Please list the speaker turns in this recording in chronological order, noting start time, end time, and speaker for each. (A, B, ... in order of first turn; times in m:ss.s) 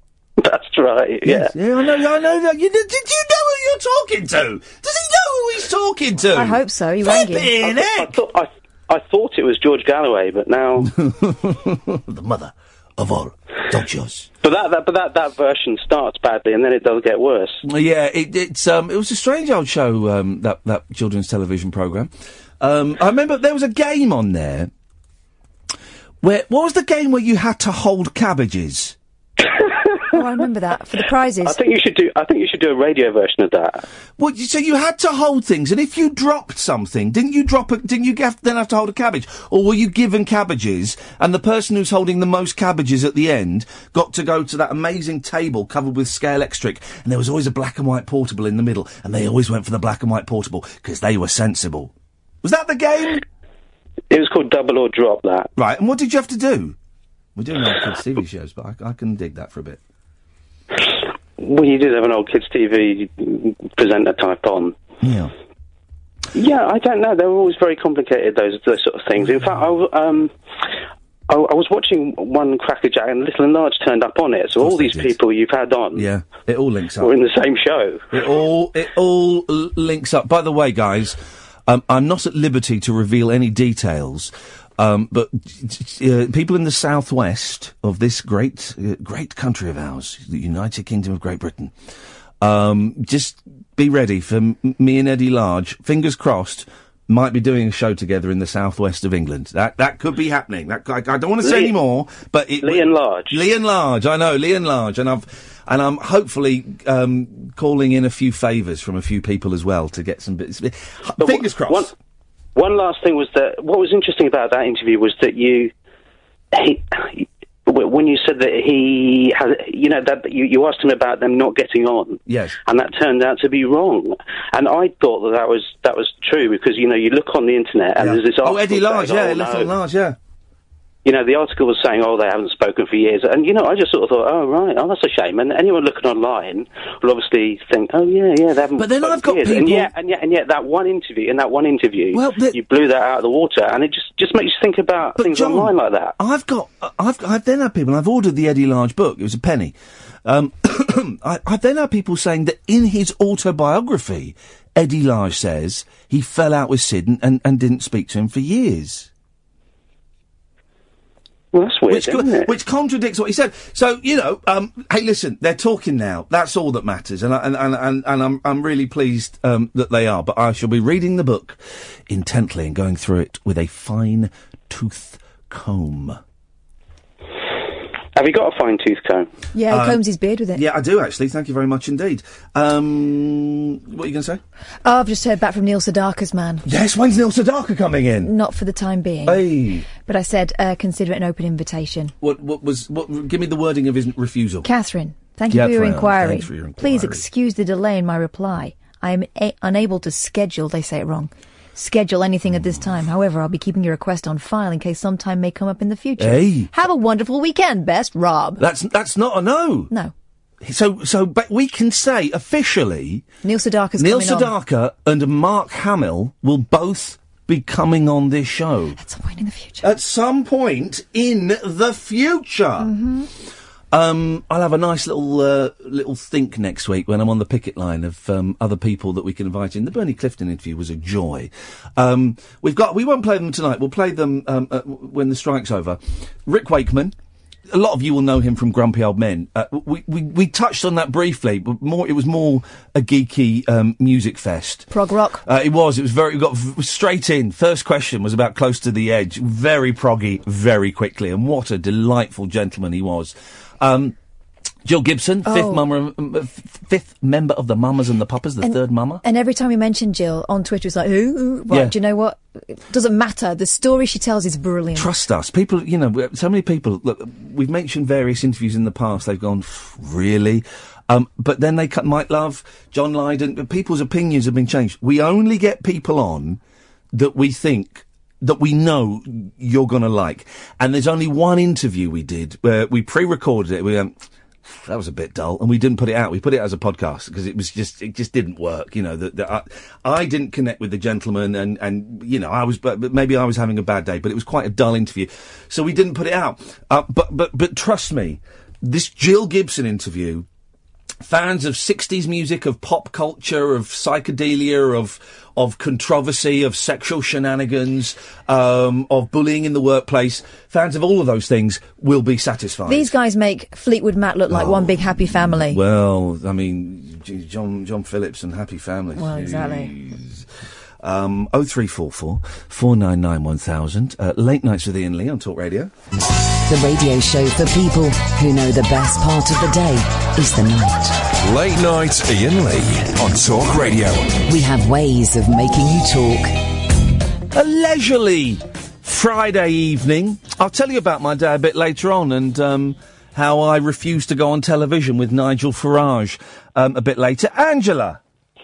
0:00.4-0:01.5 A
0:01.2-0:08.2 B
0:06.3-0:07.5 C
0:07.6-0:10.9 A
0:10.8-0:14.3 B
0:14.4-0:17.6 A
0:17.6-0:24.7 B
0:26.2-0:29.0 B
0:30.1-0:31.6 C
0:31.4-0:33.8 A
0:34.2-0:51.9 B
0:52.4-0:53.2 B
0:54.1-0:55.5 A
0:55.6-0:56.8 B
0:57.4-0:59.8 B
1:00.8-1:04.8 A
1:05.0-1:05.3 B
1:06.3-1:10.3 A
1:11.3-1:16.1 A
1:14.6-1:15.2 B
1:16.0-1:17.1 B
1:17.0-1:18.0 A
1:18.1-1:31.7 B
1:32.4-1:51.9 B
1:41.4-1:41.8 A
1:42.6-1:43.4 A
1:51.2-1:51.9 A
1:52.6-1:55.7 A
1:56.5-2:09.7 A
2:02.3-2:02.6 B
2:08.0-2:10.2 B
2:11.0-2:26.1 A
2:18.8-2:19.9 B
2:22.1-2:22.6 B
2:25.2-2:39.1 B
2:41.5-2:42.5 A
2:41.9-2:56.2 B
2:58.2-2:59.3 A
2:59.5-3:00.6 C
2:59.7-3:00.0 B
3:00.5-3:04.4 B
3:04.8-3:06.6 C
3:06.6-3:08.3 B
3:08.2-3:12.1 C
3:09.3-3:09.9 B
3:12.2-3:14.7 B
3:14.6-3:28.6 C
3:15.5-3:17.2 B
3:26.2-3:26.7 B
3:28.6-3:29.9 B
3:30.6-3:33.2 B
3:33.4-3:34.5 C
3:34.0-3:39.0 B
3:39.0-3:39.9 C
3:39.8-3:42.9 B
3:42.8-3:43.3 C
3:43.9-3:57.1 B
3:57.7-4:04.9 B
4:04.9-4:05.4 C
4:05.4-4:14.1 B
4:14.8-4:19.2 B
4:15.5-4:15.8 C
4:18.6-4:25.1 C
4:21.7-4:22.0 B
4:25.0-4:36.6 B
4:37.1-5:00.5 B
5:01.2-5:13.1 B
5:12.9-5:15.8 C
5:14.5-5:20.5 B
5:19.2-5:19.9 C
5:21.0-5:25.9 B
5:26.6-5:31.2 D
5:31.4-5:34.4 E
5:34.5-5:36.5 D
5:37.5-5:48.2 B